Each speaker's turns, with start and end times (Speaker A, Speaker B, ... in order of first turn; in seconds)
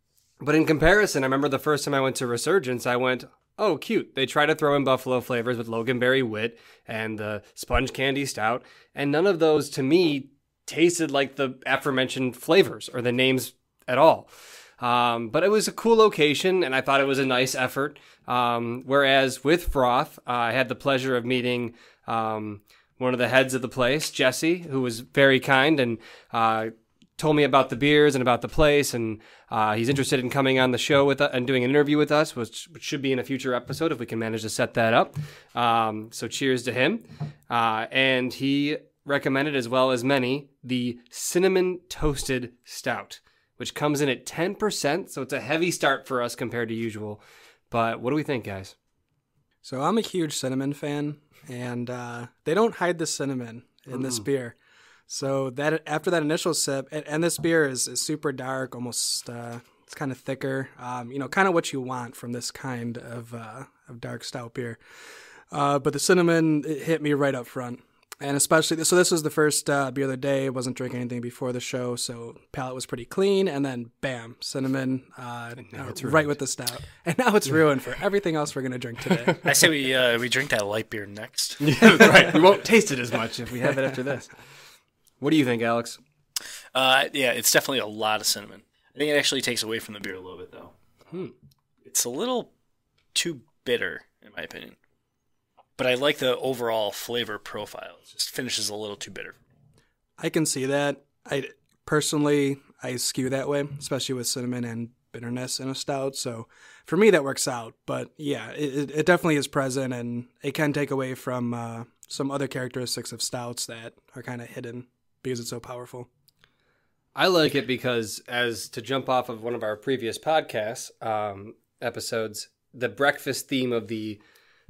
Speaker A: 0.4-48.7, 75.6-76.3, 81.6-84.3, 85.2-86.0, 117.2-124.2
Speaker B: 49.6-54.5, 55.1-64.8, 65.5-79.4, 100.2-116.1
Speaker C: 79.4-81.9, 86.7-90.7, 91.9-92.5, 93.1-94.8, 95.8-99.4